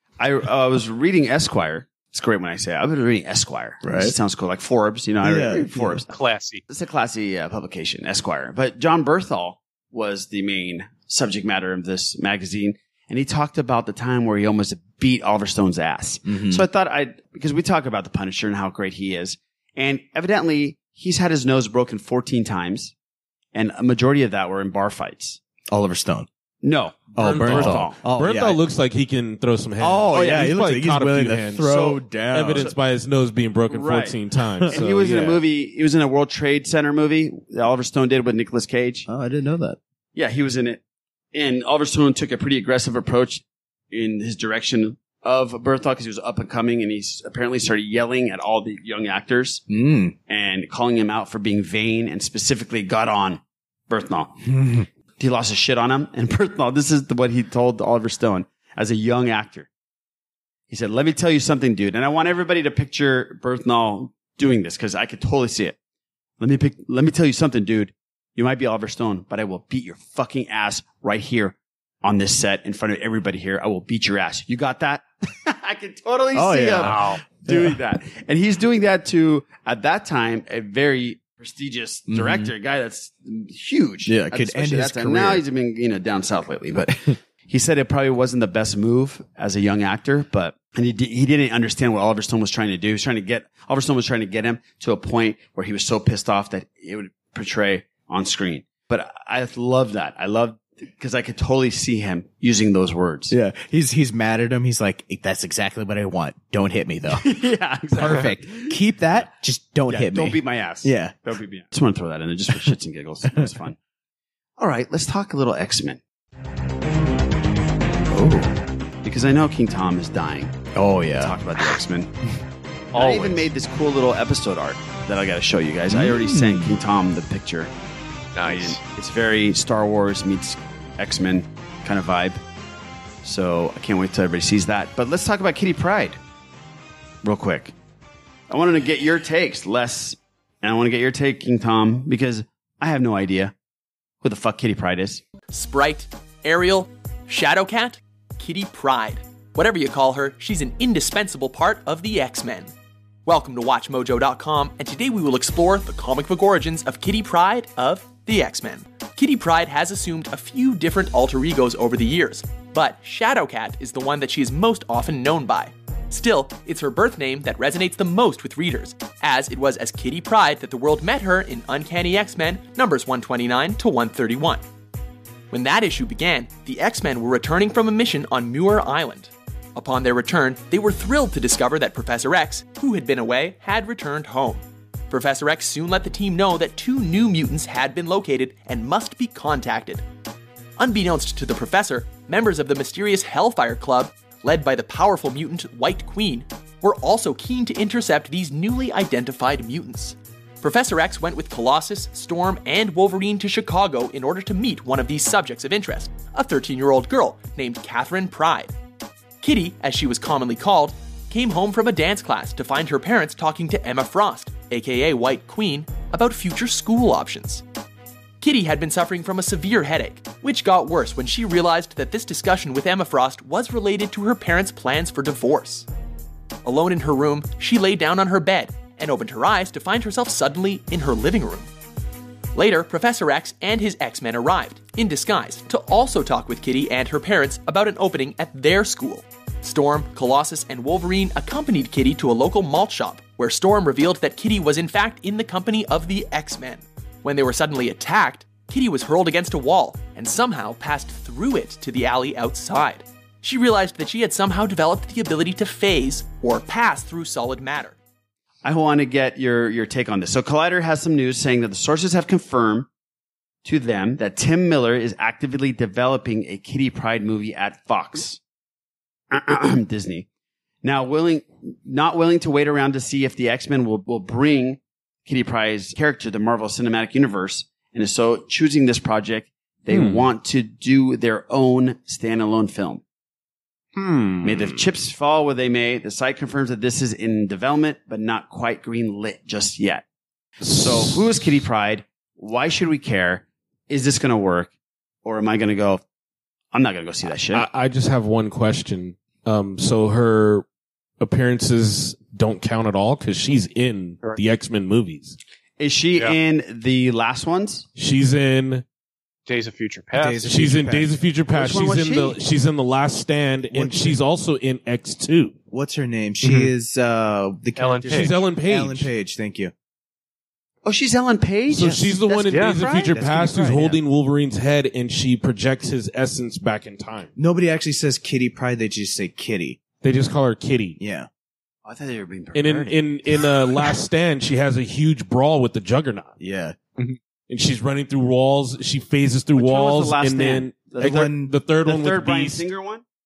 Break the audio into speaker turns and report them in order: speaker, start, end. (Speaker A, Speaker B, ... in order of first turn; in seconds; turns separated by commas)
Speaker A: 0.2-6.1, Speaker B: 3.8-4.2, Speaker B: 5.2-6.0, Speaker C: 6.1-6.6, Speaker A: 6.7-22.9, Speaker B: 16.2-16.6, Speaker A: 23.5-25.4, Speaker B: 25.7-26.3, Speaker A: 26.6-28.0, Speaker B: 27.1-28.6, Speaker D: 27.2-31.7, Speaker B: 29.8-32.7, Speaker A: 30.1-30.6, Speaker A: 31.7-32.7, Speaker D: 32.3-35.4, Speaker A: 33.7-34.2, Speaker A: 34.7-39.1, Speaker B: 39.1-39.8, Speaker A: 40.1-40.8, Speaker A: 41.3-49.6, Speaker B: 49.7-50.2, Speaker A: 50.3-54.4, Speaker B: 54.5-54.9, Speaker A: 55.2-59.7, Speaker A: 60.7-65.8, Speaker A: 66.4-103.3, Speaker B: 76.3-77.8, Speaker C: 76.9-77.2, Speaker B: 82.1-82.5, Speaker B: 84.0-85.4, Speaker B: 103.3-107.3, Speaker A: 107.1-109.2, Speaker B: 108.0-111.2, Speaker A: 109.9-113.8, Speaker A: 114.6-116.0, Speaker B: 118.1-118.5, Speaker A: 119.0-122.1, Speaker B: 120.7-121.8, Speaker A: 122.9-127.7, Speaker C: 122.9-123.5, Speaker B: 125.9-126.8, Speaker C: 128.3-128.8, Speaker A: 128.4-132.4, Speaker A: 133.2-136.2, Speaker A: 137.2-137.7, Speaker A: 138.5-143.5, Speaker A: 144.2-145.2, Speaker E: 145.5-152.7, Speaker E: 153.3-174.6, Speaker E: 175.5-190.0, Speaker E: 190.8-208.7, Speaker E: 209.4-217.6, Speaker E: 218.4-225.9, Speaker E: 226.7-231.7, Speaker E: 232.6-258.0, Speaker A: 258.6-262.9, Speaker A: 263.6-268.4, Speaker A: 269.3-270.3, Speaker A: 270.8-283.0, Speaker D: 279.9-280.3, Speaker D: 284.0-284.9, Speaker A: 284.4-290.0, Speaker D: 290.6-291.6, Speaker A: 290.7-294.7, Speaker A: 295.2-296.0, Speaker A: 296.7-297.6, Speaker D: 297.5-300.6, Speaker D: 301.2-305.4, Speaker A: 305.8-307.9, Speaker D: 308.0-308.8, Speaker C: 309.5-310.4, Speaker B: 310.1-311.2, Speaker D: 310.4-315.6, Speaker A: 311.5-312.4, Speaker B: 313.7-314.2, Speaker B: 315.7-319.7, Speaker C: 316.4-316.7, Speaker C: 317.8-318.3, Speaker D: 318.1-319.1, Speaker A: 320.9-323.3, Speaker D: 321.7-327.3, Speaker C: 322.5-322.8, Speaker B: 323.2-324.0, Speaker B: 327.4-329.8, Speaker D: 330.0-331.0, Speaker B: 331.0-331.3, Speaker A: 331.9-333.1, Speaker D: 332.5-336.3, Speaker B: 336.4-336.8, Speaker D: 337.5-342.7, Speaker A: 339.6-343.0, Speaker B: 341.0-341.5